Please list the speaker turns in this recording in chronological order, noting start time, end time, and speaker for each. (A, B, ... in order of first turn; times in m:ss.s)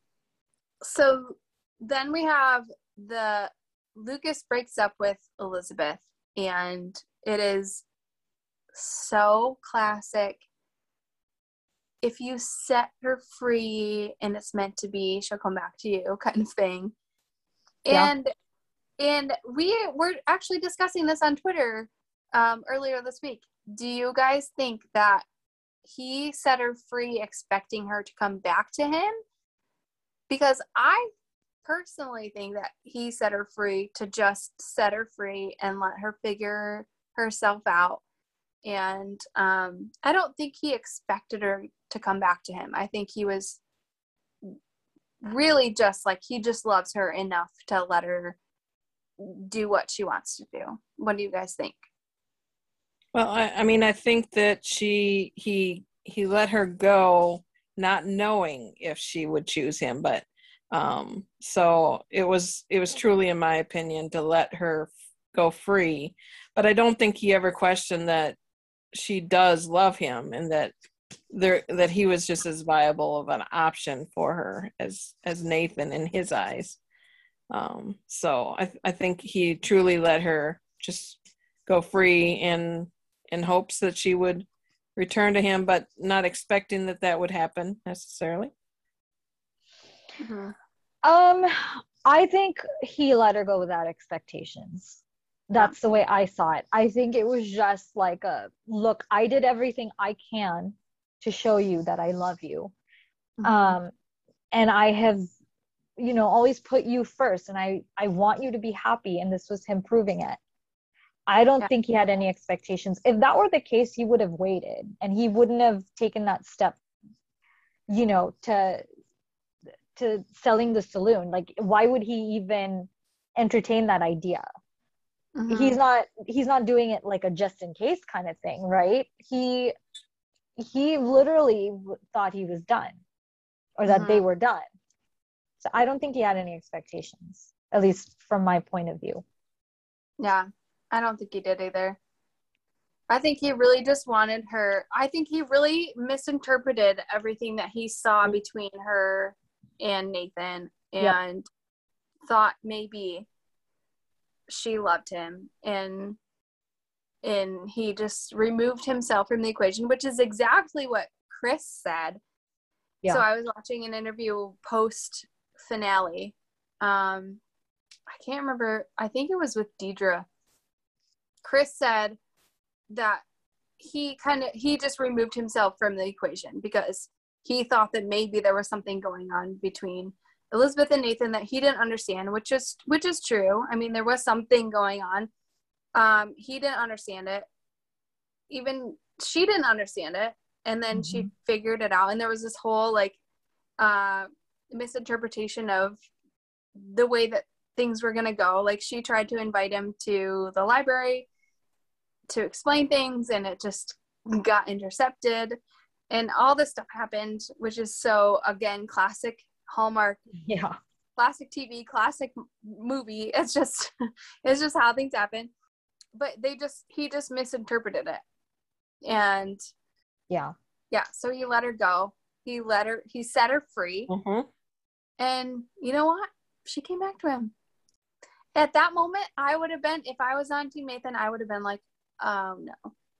0:00.8-0:07.8 A
0:08.7-0:10.4 A
0:12.0-0:16.9 A
0:17.8-0:18.3 A
0:19.0-0:25.2 A
0:25.8-0:29.1 A
0:30.3-0:31.1 A
0:31.6-0:38.0 A
0:38.6-0:43.6 A
0:45.2-0:48.4 A
0:49.2-0:51.8 A
0:53.1-1:08.4 B
1:08.9-1:10.7 B
1:11.3-1:16.8 B
1:17.5-1:28.5 B
1:30.2-1:30.5 A
1:31.0-1:35.0 C
1:35.5-1:42.7 C
1:43.4-1:43.8 A
1:43.4-1:43.9 C
1:44.5-1:45.3 C
1:46.0-1:50.4 C
1:51.3-1:56.8 C
1:57.9-1:58.8 C
1:59.9-2:04.4 C
2:05.4-2:05.8 A
2:05.5-2:09.7 C
2:10.6-2:13.0 C
2:13.8-2:14.6 C
2:13.9-2:14.2 A
2:15.6-2:19.2 C
2:20.2-2:22.0 A
2:23.1-2:31.4 A
2:32.2-2:33.3 A
2:34.5-2:36.2 A
2:37.2-2:42.2 A
2:43.1-2:47.4 A
2:48.1-2:50.3 A
2:51.4-2:52.2 A
2:52.9-2:53.2 A
2:53.8-3:05.3 A
3:05.9-3:07.5 A
3:08.5-3:13.2 A
3:10.9-3:11.3 C
3:13.8-3:16.0 A
3:16.8-3:21.3 A
3:22.3-3:25.6 A
3:26.1-3:30.2 A
3:30.4-3:30.8 C
3:31.2-3:33.9 A
3:34.4-3:35.5 A
3:36.1-3:38.2 A
3:39.0-3:39.6 A
3:40.9-3:44.1 A
3:44.1-3:44.5 B
3:45.2-3:47.5 A
3:48.6-3:52.9 A